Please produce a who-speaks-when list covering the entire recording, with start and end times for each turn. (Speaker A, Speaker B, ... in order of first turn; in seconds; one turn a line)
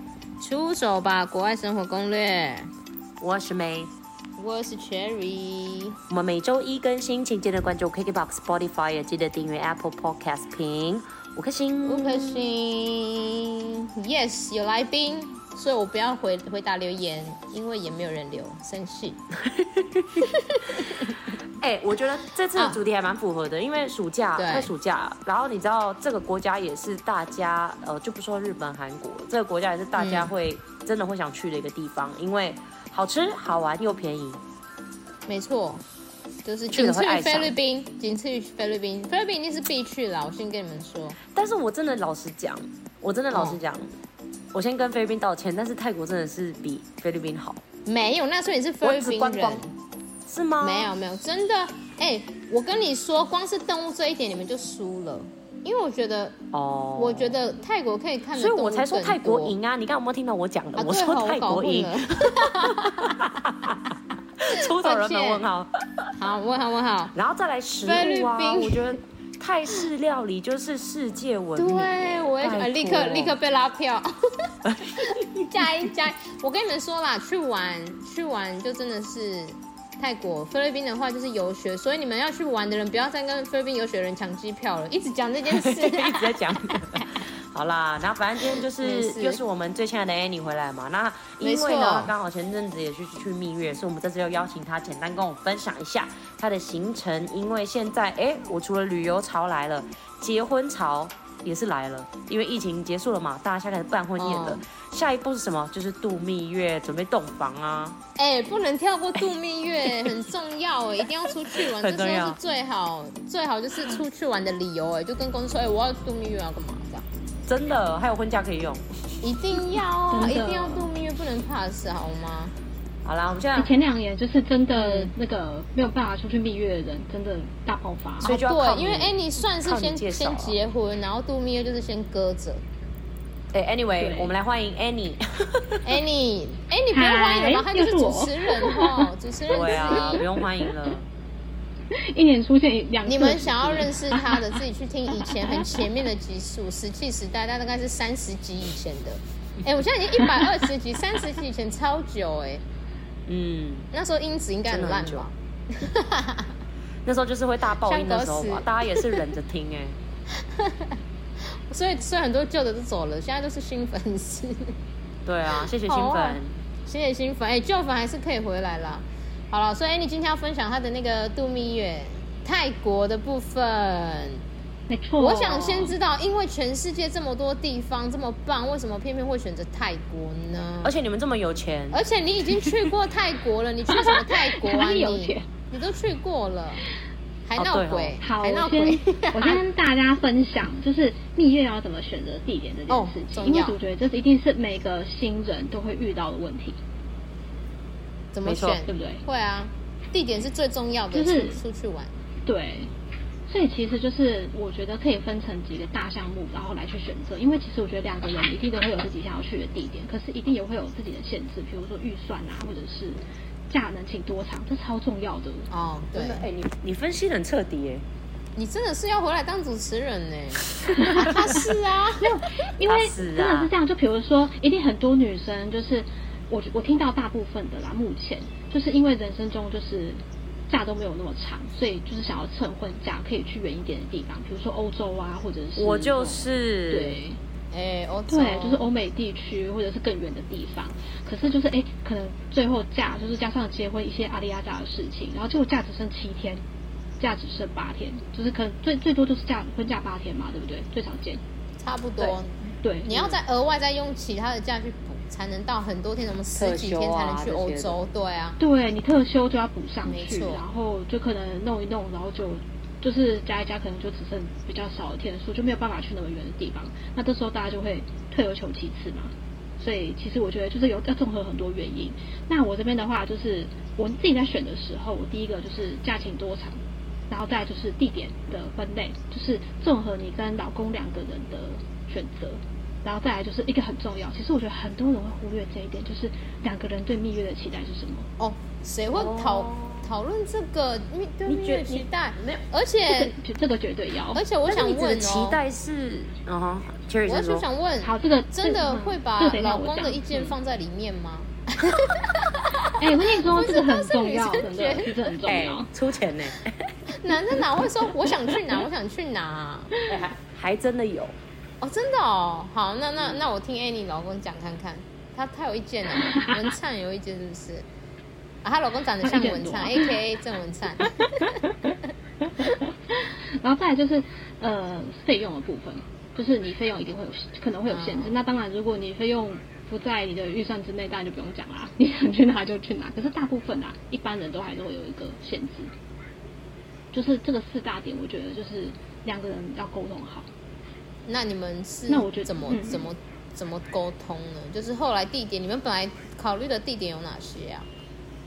Speaker A: 0.4-2.7
Speaker B: 3.2-3.9
Speaker A: 4.4-6.0
Speaker B: 6.1-12.4
Speaker A: 11.8-19.2
Speaker B: 19.5-20.2
Speaker A: 20.2-21.1
Speaker B: 21.6-34.4
Speaker A: 22.5-22.8
Speaker A: 24.4-24.7
Speaker A: 29.9-30.3
Speaker A: 35.3-35.8
Speaker A: 36.4-41.2
Speaker B: 36.7-37.5
Speaker B: 41.3-43.9
Speaker A: 43.3-43.6
Speaker B: 44.5-47.6
Speaker A: 47.9-49.7
Speaker B: 48.8-49.6
Speaker B: 50.2-50.9
Speaker A: 50.6-56.4
Speaker B: 56.5-57.4
Speaker A: 57.0-59.5
Speaker B: 58.3-66.1
Speaker A: 60.8-63.2
Speaker A: 64.5-65.4
Speaker A: 66.2-67.1
Speaker B: 67.2-73.4
Speaker A: 67.8-69.0
Speaker A: 71.5-87.0
Speaker B: 74.6-75.2
Speaker B: 85.5-108.0
Speaker A: 88.4-89.4
Speaker A: 91.4-92.1
Speaker A: 104.2-104.6
Speaker A: 108.2-117.0
Speaker B: 111.2-112.4
Speaker B: 117.5-118.8
Speaker A: 119.2-122.5
Speaker C: 120.1-120.9
Speaker B: 123.0-123.7
Speaker C: 123.5-128.3
Speaker B: 128.2-130.6
Speaker A: 128.2-132.6
Speaker B: 133.5-135.9
Speaker C: 134.0-134.3
Speaker A: 135.8-140.2
Speaker C: 136.9-139.1
Speaker B: 139.5-141.0
Speaker C: 139.7-140.7
Speaker C: 141.9-144.6
Speaker A: 143.0-152.6
Speaker C: 145.2-145.8
Speaker B: 153.3-153.9
Speaker A: 153.9-156.5
Speaker B: 154.7-155.2
Speaker B: 157.0-159.9
Speaker A: 157.8-159.2
Speaker A: 160.3-164.8
Speaker B: 165.2-166.5
Speaker A: 165.6-174.4
Speaker C: 174.9-175.9
Speaker A: 175.2-180.9
Speaker B: 180.8-182.0
Speaker A: 181.9-186.8
Speaker C: 183.9-185.5
Speaker A: 187.4-189.6
Speaker B: 187.6-188.2
Speaker C: 188.2-196.8
Speaker A: 192.9-193.8
Speaker A: 198.3-202.1
Speaker B: 198.4-198.8
Speaker C: 198.8-199.2
Speaker C: 201.1-201.6
Speaker C: 202.4-202.9
Speaker C: 203.5-215.7
Speaker A: 215.7-216.5
Speaker B: 216.1-218.0
Speaker A: 218.6-222.3
Speaker C: 220.9-221.3
Speaker B: 221.1-221.5
Speaker C: 222.2-237.4
Speaker B: 222.8-223.7
Speaker B: 235.8-237.2
Speaker A: 237.7-238.9
Speaker C: 238.3-246.6
Speaker C: 247.2-251.4
Speaker A: 251.8-258.6
Speaker C: 252.2-253.4
Speaker B: 256.5-258.0
Speaker C: 258.6-288.3
Speaker A: 260.1-260.6
Speaker A: 288.4-293.3
Speaker B: 289.1-290.1
Speaker B: 291.4-292.6
Speaker C: 293.0-294.4
Speaker A: 294.3-295.6
Speaker B: 294.7-297.7
Speaker A: 297.2-305.4
Speaker C: 298.0-300.5
Speaker C: 303.0-305.9
Speaker B: 305.4-306.9
Speaker A: 307.1-309.9
Speaker B: 310.0-311.4
Speaker A: 311.8-317.8
Speaker C: 316.2-316.5
Speaker A: 318.6-321.5
Speaker C: 319.2-320.2
Speaker C: 321.1-321.8
Speaker C: 322.4-335.9
Speaker A: 327.9-328.3
Speaker C: 337.1-340.5
Speaker A: 341.2-347.9
Speaker C: 342.1-343.1